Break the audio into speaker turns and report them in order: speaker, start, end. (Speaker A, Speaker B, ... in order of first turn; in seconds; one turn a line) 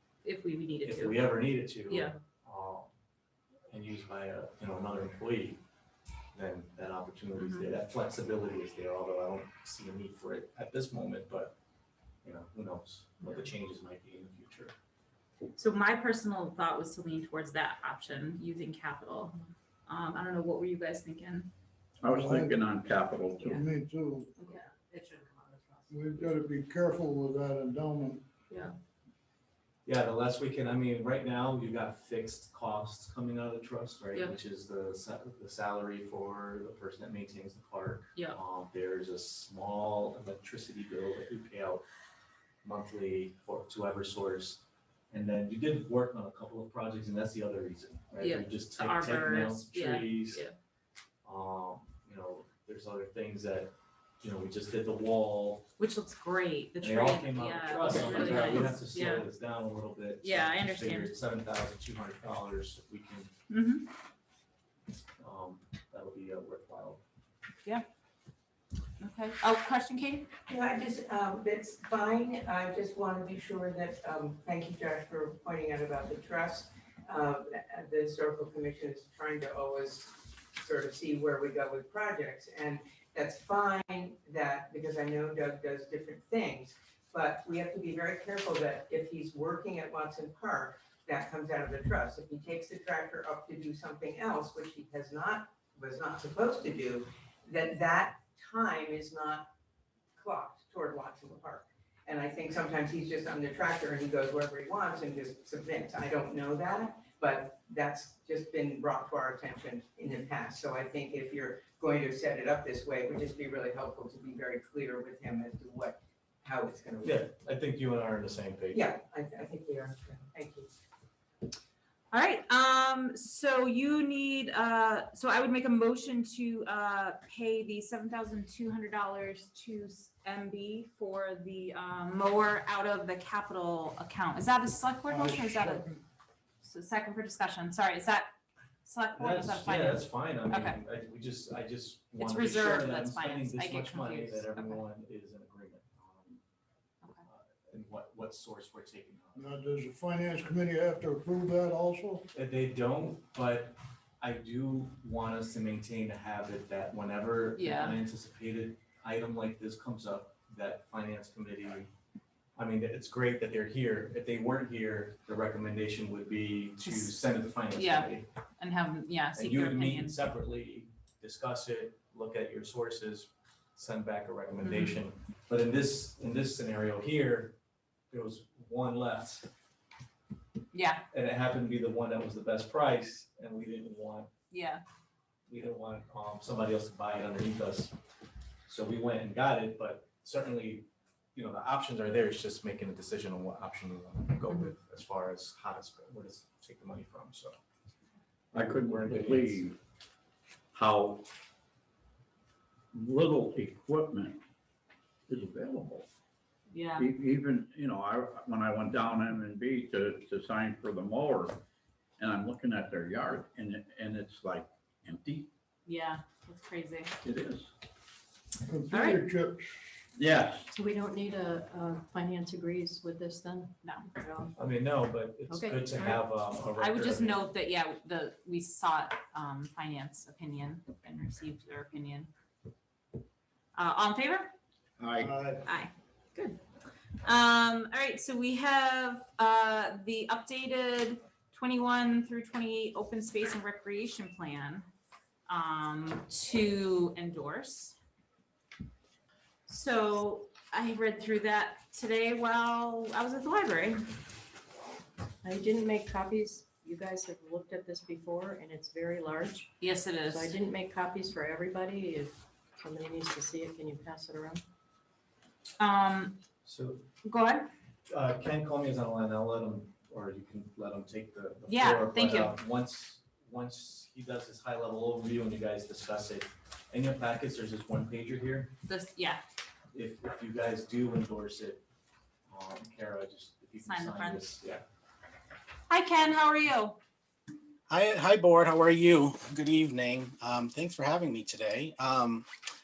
Speaker A: 0.2-2.1
Speaker B: 0.8-2.9
Speaker B: 3.7-5.6
Speaker B: 6.3-11.5
Speaker A: 7.4-7.7
Speaker B: 12.2-14.7
Speaker A: 15.6-21.5
Speaker C: 22.0-23.6
Speaker D: 22.1-22.6
Speaker D: 23.4-24.3
Speaker A: 24.4-25.9
Speaker D: 25.9-28.2
Speaker A: 28.5-28.8
Speaker B: 29.9-41.8
Speaker B: 42.6-50.5
Speaker A: 48.2-50.5
Speaker B: 51.2-55.7
Speaker A: 55.8-59.3
Speaker B: 56.8-63.3
Speaker A: 60.2-61.1
Speaker A: 63.5-63.9
Speaker B: 65.2-67.0
Speaker A: 69.0-70.3
Speaker E: 70.5-99.5
Speaker E: 100.2-117.2
Speaker B: 117.0-118.8
Speaker E: 118.7-120.7
Speaker A: 122.1-135.9
Speaker D: 135.1-136.0
Speaker A: 136.6-138.3
Speaker A: 138.8-140.8
Speaker B: 139.2-146.4
Speaker A: 142.2-144.8
Speaker B: 147.2-149.5
Speaker D: 149.3-152.2
Speaker B: 152.3-161.9
Speaker A: 157.6-158.0
Speaker B: 162.6-168.3
Speaker A: 166.8-167.1
Speaker A: 167.8-170.2
Speaker B: 169.3-177.6
Speaker A: 174.6-175.0
Speaker B: 178.1-179.5
Speaker A: 180.7-181.0
Speaker B: 181.1-184.3
Speaker A: 184.5-184.8
Speaker B: 185.5-187.9
Speaker B: 188.7-197.6
Speaker B: 198.5-199.7
Speaker C: 198.6-199.8
Speaker C: 200.7-201.3
Speaker C: 202.9-204.4
Speaker C: 205.3-206.1
Speaker A: 206.7-207.1
Speaker C: 207.0-211.6
Speaker C: 212.2-215.5
Speaker A: 215.9-217.1
Speaker C: 217.2-217.7
Speaker D: 218.6-220.0
Speaker A: 218.9-219.2
Speaker C: 220.2-220.7
Speaker F: 220.7-224.5
Speaker A: 223.8-224.1
Speaker B: 224.6-227.5
Speaker F: 225.5-226.2
Speaker A: 226.8-232.3
Speaker A: 233.7-234.5
Speaker C: 235.0-235.3
Speaker D: 235.2-235.6
Speaker A: 235.6-236.6
Speaker A: 237.2-244.9
Speaker A: 245.5-248.0
Speaker A: 249.7-254.1
Speaker F: 255.4-264.6
Speaker A: 259.8-260.6
Speaker A: 265.8-266.4
Speaker B: 266.6-267.1
Speaker A: 267.2-267.7
Speaker B: 268.1-278.7
Speaker A: 271.7-272.6
Speaker A: 278.9-279.4
Speaker B: 279.9-281.8
Speaker B: 282.5-284.8
Speaker A: 283.8-284.5
Speaker A: 285.9-287.0
Speaker G: 287.9-292.5